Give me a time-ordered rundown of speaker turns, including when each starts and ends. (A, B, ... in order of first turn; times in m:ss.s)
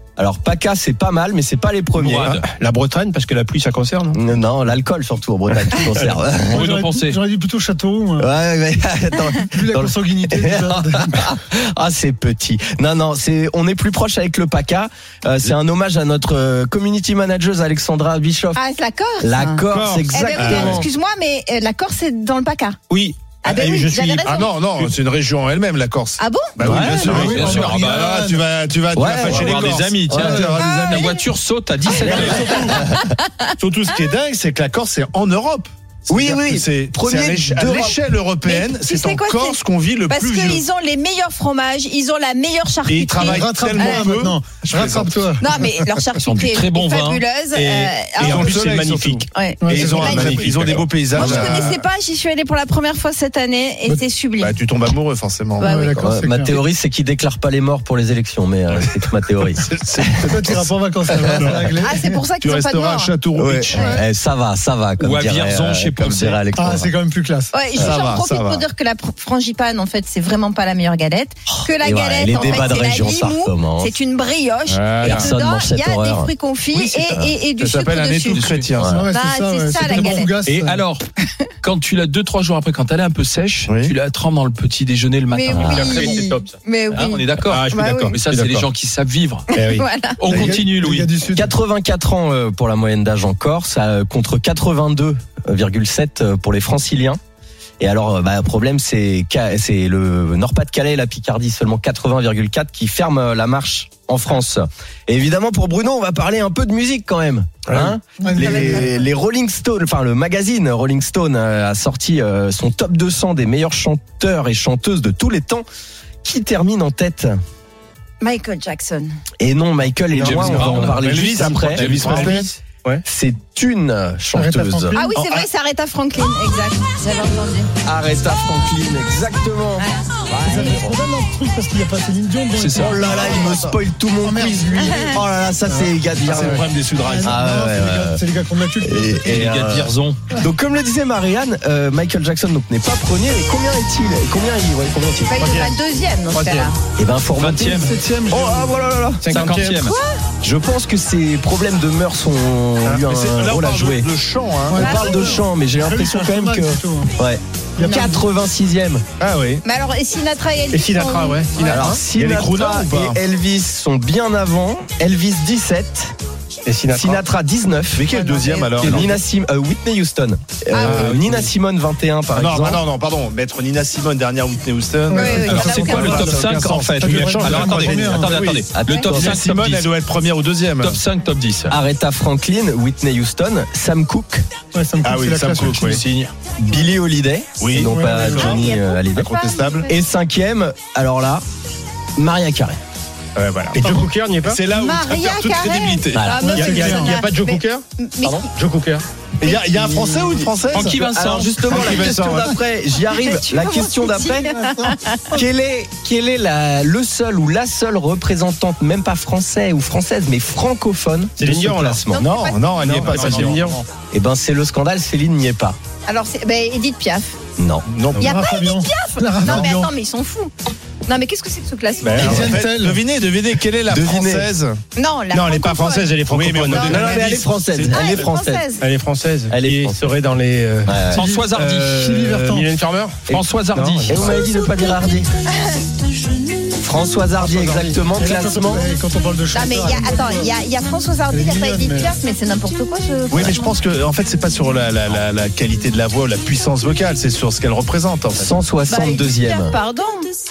0:00.2-0:02.4 A
0:02.0-0:02.4 B
0:02.2-0:04.2 C
0:04.1-0:06.7 A
0:05.7-0:06.2 C
0:06.5-0:07.2 B
0:06.5-0:08.3 D
0:08.2-0:18.6 A
0:09.5-0:11.3 D
0:18.5-0:22.8 E
0:19.2-0:20.9 A
0:19.7-0:20.1 C
0:20.4-0:20.8 F
0:22.9-0:24.2 C
0:23.4-0:24.5 E
0:24.2-0:31.1 F
0:26.2-0:26.6 E
0:26.6-0:28.1 B
0:26.8-0:28.4 D
0:28.9-0:30.6 A
0:29.0-0:32.7 B
0:30.6-0:31.2 E
0:31.9-0:32.8 F
0:31.9-0:33.2 E
0:32.0-0:33.1 A
0:33.6-0:40.6 F
0:36.1-0:38.0 A
0:38.4-0:44.1 E
0:42.9-0:45.3 F
0:43.2-0:45.5 D
0:45.4-0:48.6 E
0:46.2-0:47.2 B
0:47.5-0:51.5 C
0:48.2-0:51.8 F
0:49.3-0:50.4 E
0:49.6-0:50.2 D
0:51.1-0:54.6 E
0:54.4-0:55.7 F
0:55.6-0:56.6 D
0:55.6-0:55.9 E
0:56.0-0:59.7 A
0:59.6-1:01.6 F
1:00.2-1:02.3 D
1:01.8-1:03.1 E
1:02.4-1:03.9 F
1:03.3-1:06.9 A
1:03.7-1:04.0 E
1:05.0-1:06.4 B
1:06.5-1:07.7 D
1:07.5-1:18.5 E
1:07.7-1:08.6 F
1:11.8-1:14.0 A
1:14.7-1:15.3 F
1:15.0-1:16.3 A
1:17.1-1:17.3 A
1:17.6-1:19.0 F
1:18.3-1:18.7 B
1:18.8-1:19.0 A
1:18.8-1:20.8 D
1:19.1-1:20.3 E
1:20.4-1:21.0 B
1:21.6-1:26.3 B
1:23.7-1:23.9 F
1:25.3-1:28.2 E
1:25.5-1:25.9 A
1:25.6-1:26.5 C
1:26.9-1:29.5 B
1:27.5-1:28.7 C
1:29.5-1:30.3 E
1:29.5-1:29.8 C
1:30.2-1:31.1 B
1:30.3-1:31.5 D
1:31.3-1:37.2 A
1:37.8-1:55.6 A
1:47.7-1:48.0 C
1:48.2-1:49.0 D
1:56.2-1:57.4 A
1:58.2-1:59.1 E
1:59.4-2:02.3 A
2:00.1-2:02.5 B
2:00.1-2:02.5 F
2:01.7-2:03.0 C
2:03.0-2:05.0 A
2:04.3-2:05.0 D
2:04.9-2:07.7 E
2:05.1-2:05.4 F
2:07.8-2:11.0 A
2:10.4-2:13.2 D
2:12.6-2:13.0 B
2:12.8-2:16.6 A
2:13.0-2:13.8 F
2:14.2-2:19.5 D
2:14.8-2:15.2 E
2:16.2-2:17.3 F
2:16.8-2:17.2 C
2:17.2-2:18.2 A
2:18.8-2:25.4 A
2:19.2-2:20.2 B
2:25.3-2:26.8 E
2:25.4-2:25.7 C
2:26.3-2:26.7 C
2:27.0-2:29.6 A
2:27.3-2:28.2 B
2:27.6-2:28.7 D
2:29.2-2:29.8 C
2:29.3-2:29.9 B
2:29.8-2:30.1 E
2:30.4-2:34.1 A
2:32.8-2:34.9 F
2:34.7-2:37.1 D
2:34.8-2:37.4 A
2:34.8-2:35.4 E
2:37.8-2:38.3 D
2:37.8-2:38.2 E
2:37.9-2:39.0 A
2:39.2-2:39.6 F
2:39.6-2:41.8 E
2:40.7-2:42.0 C
2:41.6-2:46.1 A
2:42.1-2:43.2 F
2:46.6-2:47.2 C
2:46.9-2:48.0 A
2:47.9-2:49.2 F
2:48.1-2:48.8 E
2:48.8-2:52.8 A
2:50.7-2:51.1 E
2:50.8-2:51.2 F
2:51.0-2:51.5 C
2:52.3-3:01.0 F
2:55.1-2:58.4 D
2:55.1-2:56.3 E
2:55.5-2:59.9 B
2:58.7-2:59.4 A
3:00.8-3:01.8 B
3:01.7-3:04.4 A
3:04.7-3:06.0 D
3:05.0-3:06.0 F
3:05.8-3:06.3 B
3:06.6-3:09.3 A
3:07.6-3:09.9 F
3:07.8-3:08.6 D
3:08.4-3:09.9 E
3:09.9-3:11.4 A
3:12.2-3:12.8 A
3:13.3-3:16.3 F
3:13.7-3:14.6 C
3:14.7-3:18.5 E
3:16.1-3:16.4 A
3:16.3-3:17.2 D
3:16.5-3:17.8 C
3:18.5-3:19.0 C
3:19.4-3:21.0 F
3:19.4-3:20.4 E
3:20.7-3:22.3 B
3:20.8-3:24.5 A
3:21.6-3:22.6 F
3:23.0-3:25.4 E
3:24.4-3:25.4 D
3:25.3-3:32.3 A
3:31.4-3:32.0 C
3:32.1-3:32.7 E
3:32.1-3:33.6 F
3:32.7-3:33.8 C
3:32.9-3:33.9 B
3:34.1-3:35.8 A
3:36.0-3:37.4 E
3:37.6-3:37.8 A
3:37.9-3:38.4 F
3:38.1-3:39.9 D
3:38.2-3:40.5 E
3:39.5-3:39.7 F
3:41.1-3:42.5 E
3:42.0-3:44.8 F
3:42.2-3:43.0 D
3:43.9-3:44.5 A
3:44.9-3:46.1 E
3:45.3-3:48.1 F
3:45.9-3:47.2 C
3:46.7-3:47.0 E
3:46.8-3:48.7 A
3:47.9-3:48.8 E
3:48.8-3:51.0 C
3:49.5-3:50.0 A
3:50.8-3:51.2 A
3:51.1-3:52.2 B
3:51.1-3:52.7 D
3:51.7-3:54.4 C
3:53.3-3:54.4 B
3:54.1-3:55.3 A
3:56.8-3:58.8 A
3:57.4-4:00.6 D
3:59.5-4:03.8 E
4:01.3-4:02.2 D
4:03.3-4:08.6 F
4:08.3-4:09.8 A
4:08.9-4:10.3 E